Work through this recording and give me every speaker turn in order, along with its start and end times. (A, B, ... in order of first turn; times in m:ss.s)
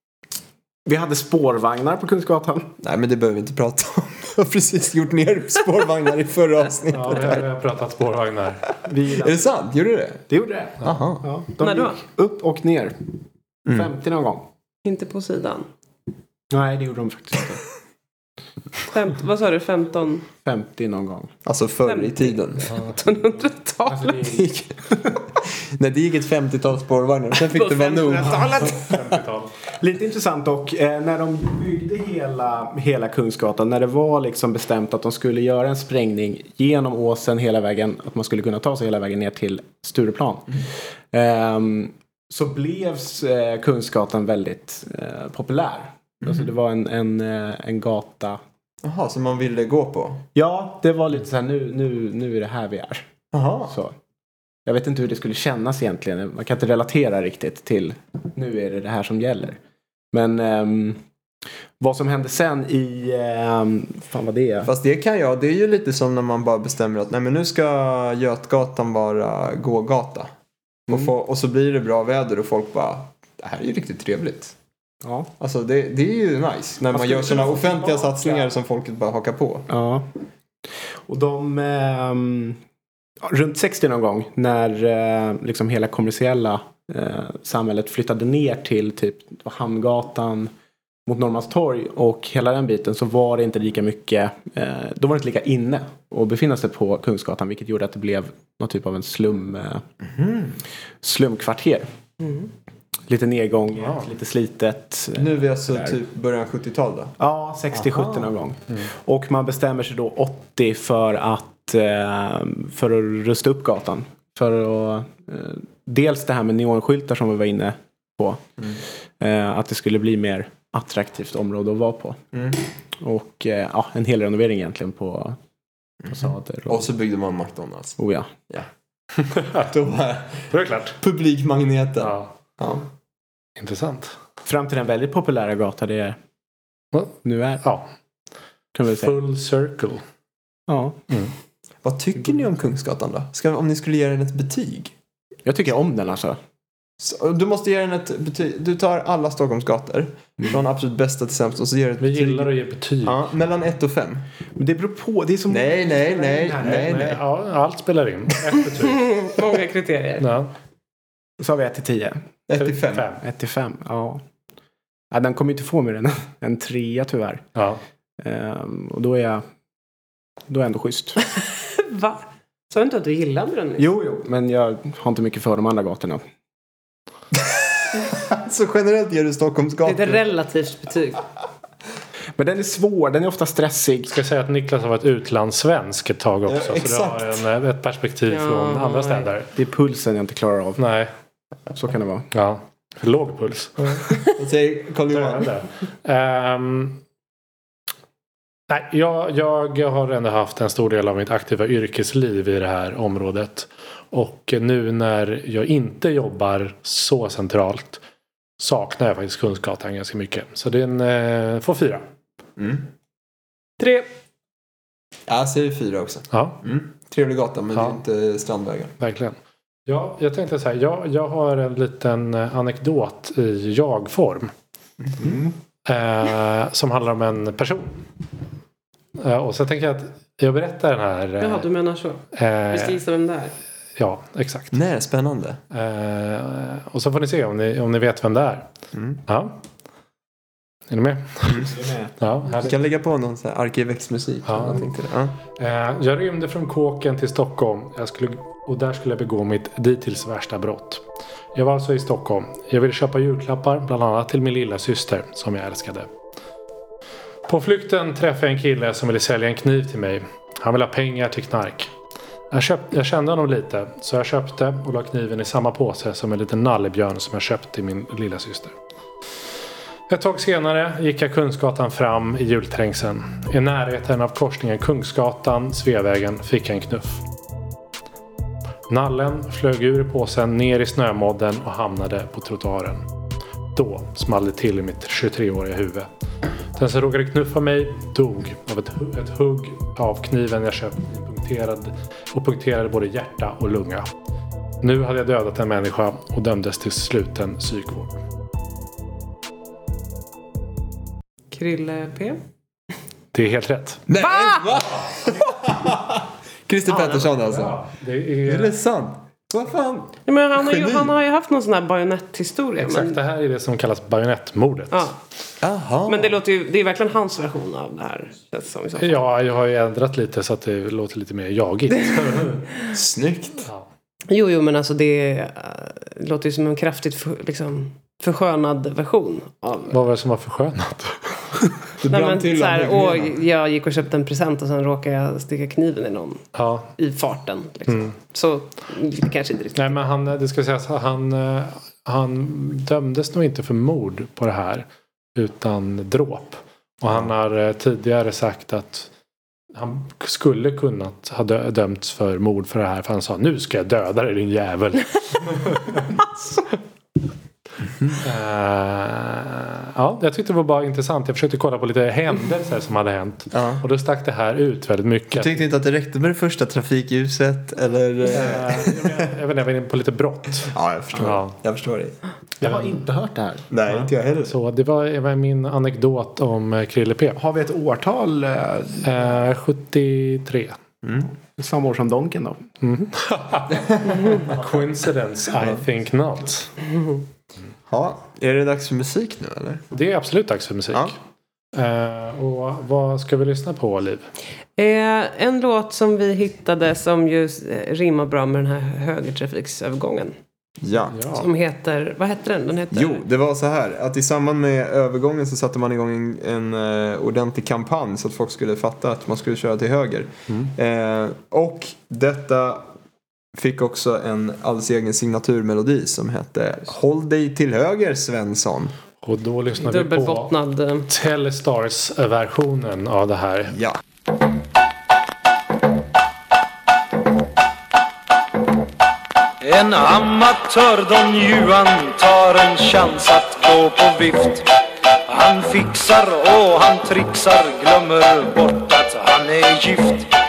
0:00.9-0:02.7 A
0:02.8-0:07.5 B
0:06.9-0:08.6 C
0:08.8-0:09.5 A
0:09.2-0:10.3 B
0:10.3-0:13.2 A
0:10.8-0:11.3 B
0:11.6-0:12.0 D
0:13.7-0:13.9 B
0:13.7-0:14.5 A
0:14.8-0:15.7 D
0:16.5-0:17.6 A
0:18.9-0:20.3 D
0:20.4-0:21.3 A
0:21.4-0:22.7 B
0:21.9-0:24.4 D
0:23.9-0:24.5 A
0:24.3-0:25.0 B
0:25.6-0:28.9 B
0:27.5-0:28.8 D
0:28.6-0:29.5 C
0:29.8-0:48.4 A
0:46.2-0:46.5 B
0:48.8-0:50.2 B
0:50.4-0:53.1 A
0:53.3-0:53.8 B
0:53.7-0:54.0 A
0:54.7-0:59.6 A
1:00.1-1:01.0 A
1:01.8-1:04.7 A
1:04.6-1:10.3 B
1:10.9-1:14.5 B
1:15.0-1:15.3 A
1:15.4-1:19.7 B
1:16.9-1:18.5 A
1:19.7-1:20.1 A
1:21.1-1:22.6 A
1:23.2-1:30.5 A
1:31.1-1:39.8 A
1:40.0-1:40.6 B
1:41.0-1:41.9 A
1:42.2-1:42.5 D
1:43.1-1:46.0 A
1:43.8-1:44.1 C
1:45.2-1:47.2 B
1:47.2-1:58.4 A
1:47.7-1:48.3 B
1:59.2-2:02.2 A
2:02.3-2:02.6 B
2:02.9-2:05.4 A
2:06.0-2:08.0 B
2:06.1-2:06.9 A
2:08.0-2:08.3 A
2:09.5-2:12.8 B
2:10.5-2:11.0 C
2:12.0-2:12.3 C
2:13.6-2:14.2 C
2:14.4-2:16.2 A
2:16.9-2:17.9 C
2:17.2-2:17.6 A
2:18.8-2:19.2 A
2:18.9-2:20.0 C
2:20.7-2:21.0 A
2:21.8-2:24.9 B
2:25.5-2:26.4 A
2:27.0-2:34.2 B
2:32.0-2:33.2 C
2:34.6-2:36.9 A
2:35.5-2:37.2 B
2:36.4-2:39.1 C
2:38.8-2:40.3 D
2:40.2-2:40.5 C
2:41.4-2:42.2 A
2:42.5-2:43.1 B
2:42.6-2:43.2 C
2:43.2-2:44.2 A
2:45.1-2:47.4 A
2:47.6-2:47.8 C
2:48.2-2:49.4 A
2:50.5-2:51.3 A
2:51.2-2:53.9 D
2:53.8-2:56.2 A
2:57.4-3:00.2 B
2:59.8-3:01.2 D
3:02.4-3:04.2 A
3:04.1-3:09.5 C
3:06.5-3:07.4 B
3:08.3-3:09.3 D
3:09.6-3:10.9 A
3:10.8-3:11.1 C
3:11.7-3:12.3 A
3:12.3-3:14.2 C
3:13.8-3:15.5 B
3:15.1-3:17.0 C
3:18.7-3:28.0 C
3:28.6-3:32.0 C
3:32.6-3:32.9 B
3:33.8-3:34.1 D
3:35.3-3:38.9 B
3:36.3-3:36.6 C
3:37.8-3:38.0 C
3:39.0-3:44.5 C
3:45.0-3:45.5 B
3:45.9-3:48.0 C
3:49.2-3:51.7 C
3:51.4-3:53.6 D
3:52.3-3:53.0 C
3:54.0-3:54.8 C
3:54.7-3:55.6 B
3:55.7-3:58.7 C
3:58.9-3:59.2 B
3:59.3-3:59.6 C
4:00.9-4:02.8 C
4:01.6-4:02.2 A
4:02.6-4:05.4 B
4:04.5-4:04.8 C
4:05.6-4:16.1 C
4:17.5-4:21.9 C
4:22.5-4:28.8 C
4:30.1-4:37.2 C
4:38.9-4:43.1 C
4:43.7-4:46.1 C
4:46.8-4:54.1 C
4:54.8-4:58.2 C
5:01.5-5:02.4 D
5:03.3-5:04.0 C
5:04.1-5:07.8 B
5:06.9-5:07.3 D
5:07.4-5:08.8 C
5:08.4-5:11.1 B
5:10.3-5:13.2 D
5:12.8-5:15.1 C
5:15.6-5:16.3 B
5:16.1-5:19.2 D
5:19.0-5:22.8 C
5:22.9-5:23.7 B
5:24.3-5:30.0 D
5:29.9-5:31.7 C
5:32.0-5:33.4 B
5:32.1-5:40.0 D
5:36.6-5:36.9 C
5:37.9-5:38.1 C
5:39.8-5:49.1 C
5:49.7-5:56.6 C
5:58.2-6:05.6 C
6:03.5-6:03.8 B
6:05.3-6:09.2 B
6:08.3-6:11.6 C
6:10.7-6:12.2 B
6:12.6-6:13.7 A
6:12.6-6:13.0 C
6:13.7-6:14.6 B
6:14.4-6:17.4 C
6:17.4-6:19.4 A
6:19.0-6:20.8 C
6:21.0-6:21.3 B
6:21.6-6:22.6 A
6:22.8-6:26.8 C
6:23.8-6:24.4 B
6:26.9-6:27.2 D
6:27.9-6:29.8 B
6:29.9-6:31.1 C
6:31.7-6:34.3 C
6:34.8-6:40.4 D
6:40.8-6:41.4 B
6:41.1-6:41.5 C
6:41.4-6:43.2 D
6:42.9-6:52.9 B
6:53.6-6:58.9 B
6:59.2-7:00.5 C
6:59.8-7:01.1 D
7:01.1-7:03.8 C
7:03.7-7:04.0 B
7:09.6-7:14.7 E
7:15.3-7:20.3 E